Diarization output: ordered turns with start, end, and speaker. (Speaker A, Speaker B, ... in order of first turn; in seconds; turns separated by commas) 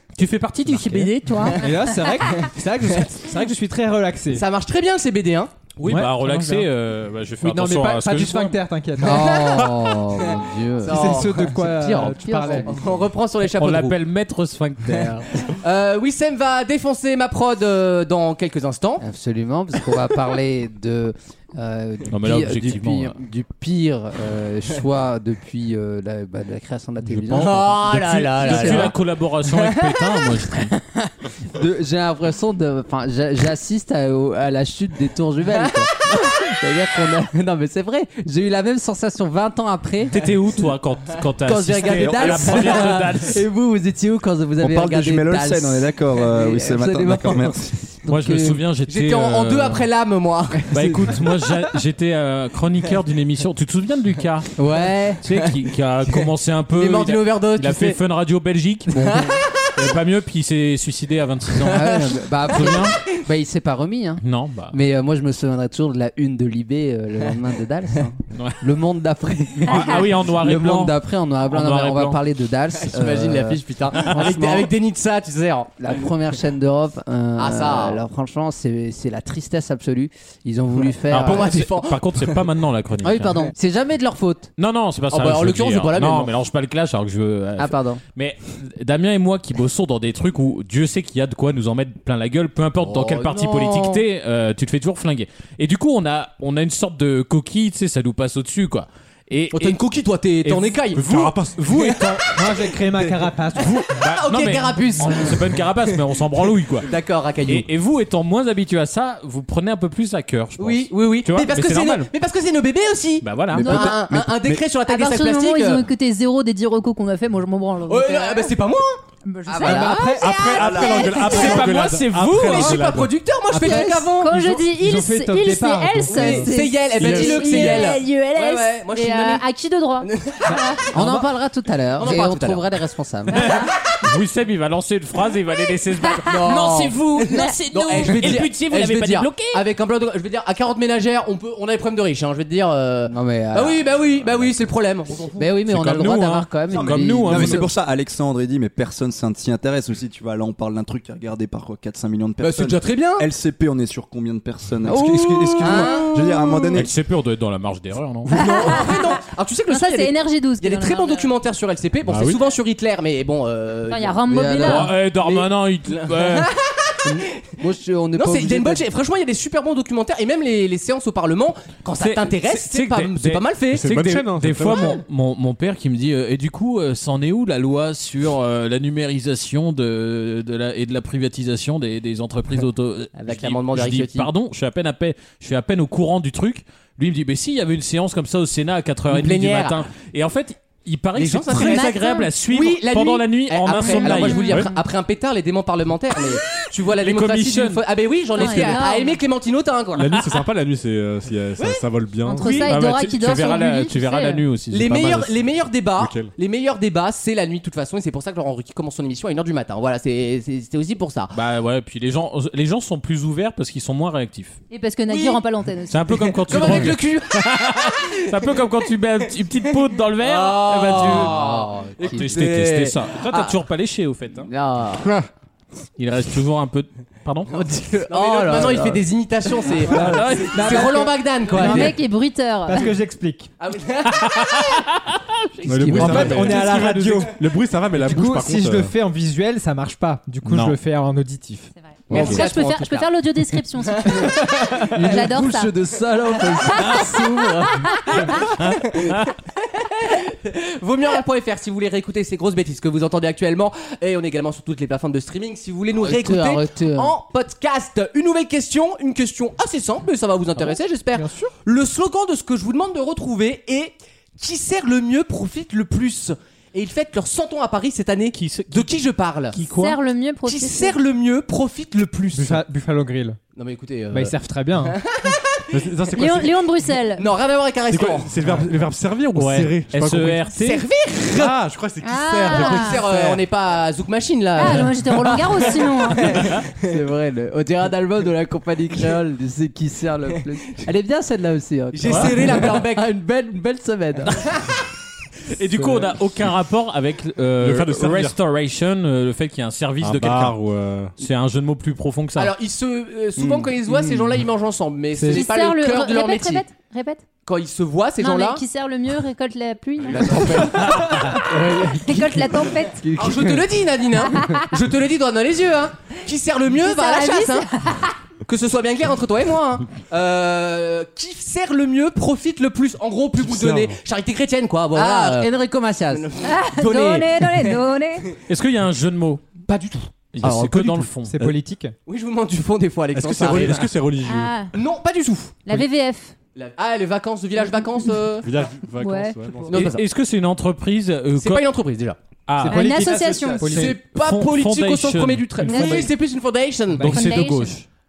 Speaker A: 0.2-1.6, Speaker B: 0.6-4.4, Speaker C: 1.5-2.2, Speaker D: 4.3-5.5, Speaker A: 5.8-8.6, Speaker B: 5.8-6.7, Speaker B: 7.4-9.4, Speaker E: 9.0-12.8, Speaker D: 9.1-9.8, Speaker D: 10.8-11.6, Speaker B: 10.8-12.9, Speaker D: 12.4-14.0, Speaker A: 13.4-15.3, Speaker D: 15.5-19.0, Speaker E: 19.0-28.9, Speaker A: 22.1-23.1, Speaker A: 27.0-30.8, Speaker D: 27.3-29.0, Speaker E: 30.9-40.2, Speaker A: 40.1-43.4, Speaker E: 41.4-48.6, Speaker D: 41.8-43.0, Speaker F: 44.6-47.7, Speaker A: 48.1-49.8, Speaker D: 48.9-50.8, Speaker A: 50.7-54.6, Speaker E: 50.7-51.1, Speaker E: 54.6-55.2, Speaker A: 55.2-63.0, Speaker D: 56.8-58.0, Speaker D: 58.9-59.7, Speaker E: 61.7-74.7, Speaker A: 64.2-64.8, Speaker A: 68.3-68.6, Speaker A: 69.6-72.2, Speaker C: 69.7-70.1, Speaker D: 72.7-75.7, Speaker E: 75.8-81.5, Speaker D: 77.4-78.0, Speaker D: 80.9-82.4, Speaker A: 81.1-83.5, Speaker E: 83.0-84.5, Speaker A: 84.6-99.8, Speaker D: 85.1-86.3, Speaker E: 87.6-88.0, Speaker D: 92.8-94.0, Speaker D: 99.5-102.2, Speaker A: 100.4-100.8, Speaker G: 100.9-103.3, Speaker A: 101.5-102.2, Speaker B: 102.3-103.7, Speaker D: 103.6-105.6, Speaker A: 103.6-106.9, Speaker D: 106.8-107.7, Speaker A: 107.5-112.1, Speaker D: 110.6-115.9, Speaker A: 113.2-113.9, Speaker F: 113.5-113.9, Speaker C: 114.7-118.5, Speaker D: 117.9-119.0, Speaker C: 119.2-121.6, Speaker E: 119.5-120.2, Speaker B: 119.6-120.3, Speaker G: 120.0-123.2, Speaker F: 120.5-121.2, Speaker A: 121.2-122.8, Speaker D: 122.4-124.6, Speaker B: 123.5-126.5, Speaker C: 123.6-130.9, Speaker D: 126.1-129.4, Speaker G: 127.0-127.5, Speaker D: 130.0-131.3, Speaker E: 130.9-133.5, Speaker D: 131.9-132.7, Speaker C: 133.3-133.7, Speaker A: 134.0-139.6, Speaker D: 136.3-145.6, Speaker E: 143.1-144.5, Speaker E: 145.4-147.7, Speaker A: 145.6-147.7, Speaker F: 146.7-156.9, Speaker D: 152.4-153.3, Speaker D: 154.9-156.6, Speaker E: 155.6-156.6, Speaker A: 156.8-158.4, Speaker C: 158.3-161.3, Speaker D: 158.3-167.4, Speaker G: 162.0-162.4, Speaker C: 163.9-164.9, Speaker E: 164.3-164.8, Speaker A: 164.6-166.5, Speaker E: 167.0-168.9, Speaker D: 168.1-173.9, Speaker A: 172.0-194.6, Speaker G: 173.7-175.0, Speaker D: 183.2-184.3, Speaker D: 189.1-189.9, Speaker D: 191.1-200.4, Speaker C: 191.5-192.3, Speaker C: 193.7-194.8, Speaker A: 196.8-197.8, Speaker C: 198.3-199.2, Speaker A: 198.4-198.8, Speaker G: 199.9-202.6, Speaker C: 202.2-204.4, Speaker D: 202.4-202.7, Speaker A: 202.5-205.3, Speaker D: 204.7-211.3, Speaker G: 206.0-206.3, Speaker A: 211.3-214.6, Speaker C: 214.7-216.9, Speaker D: 215.1-215.4, Speaker A: 215.9-221.4, Speaker D: 216.5-218.4, Speaker D: 220.2-223.2, Speaker E: 220.9-222.7, Speaker A: 222.1-224.5, Speaker E: 224.4-225.3, Speaker A: 226.0-227.5, Speaker E: 227.5-229.1, Speaker D: 228.0-232.0, Speaker A: 229.9-231.1, Speaker B: 229.9-232.0, Speaker C: 231.5-232.9, Speaker B: 232.6-233.5, Speaker D: 233.6-234.8, Speaker A: 234.3-234.8, Speaker D: 235.6-236.9, Speaker A: 235.6-236.2, Speaker G: 235.7-238.9, Speaker B: 235.8-237.3, Speaker E: 235.8-236.4, Speaker B: 237.9-241.7, Speaker A: 240.4-240.8, Speaker C: 241.8-244.3, Speaker A: 242.1-242.4, Speaker D: 242.1-243.1, Speaker D: 243.8-244.3, Speaker E: 244.1-248.0, Speaker C: 245.0-245.7, Speaker C: 246.7-248.3, Speaker A: 248.6-249.3, Speaker D: 249.7-269.6, Speaker E: 255.9-257.1, Speaker A: 260.6-261.4, Speaker A: 268.3-268.9, Speaker A: 269.5-270.0, Speaker C: 269.6-271.0, Speaker D: 270.4-272.6, Speaker B: 272.3-273.4, Speaker D: 273.6-274.3, Speaker B: 274.1-275.0, Speaker D: 274.9-275.6, Speaker G: 275.7-276.8, Speaker C: 276.1-277.3, Speaker D: 277.2-278.4, Speaker G: 277.9-280.5, Speaker A: 279.3-280.8, Speaker D: 280.5-281.6, Speaker G: 281.2-283.4, Speaker C: 282.0-283.1, Speaker D: 282.4-286.6, Speaker C: 284.6-286.4, Speaker E: 286.8-294.5, Speaker D: 291.9-293.1, Speaker A: 292.1-292.3, Speaker A: 295.5-300.6, Speaker G: 297.6-298.4, Speaker G: 300.0-301.1, Speaker A: 301.2-302.5, Speaker D: 302.4-306.6, Speaker E: 303.4-304.4, Speaker B: 305.1-305.5, Speaker C: 305.3-307.2, Speaker D: 307.4-308.6, Speaker C: 308.2-313.1, Speaker D: 310.1-312.5, Speaker E: 313.0-313.7, Speaker D: 313.2-317.6, Speaker C: 314.2-314.7, Speaker C: 316.7-318.1, Speaker D: 318.4-325.5, Speaker G: 323.4-324.0, Speaker E: 324.9-326.2, Speaker D: 326.1-327.8, Speaker C: 326.4-328.3, Speaker A: 328.5-329.4, Speaker D: 329.7-330.2, Speaker A: 330.3-331.3, Speaker G: 330.4-331.6, Speaker B: 331.2-331.9, Speaker D: 332.1-333.9, Speaker G: 333.1-334.6, Speaker C: 334.1-334.7, Speaker D: 334.7-335.7, Speaker C: 335.6-336.3, Speaker D: 336.6-338.5, Speaker C: 337.6-338.1, Speaker G: 338.4-339.8, Speaker C: 338.9-339.7, Speaker D: 339.7-340.0, Speaker A: 339.7-341.7, Speaker D: 341.3-342.2, Speaker A: 342.5-343.2, Speaker B: 342.6-344.0, Speaker C: 342.6-343.7, Speaker F: 343.0-343.7, Speaker D: 343.6-347.4, Speaker A: 343.7-346.1, Speaker C: 345.6-346.1, Speaker B: 346.9-347.3, Speaker A: 347.0-347.8, Speaker C: 347.1-347.8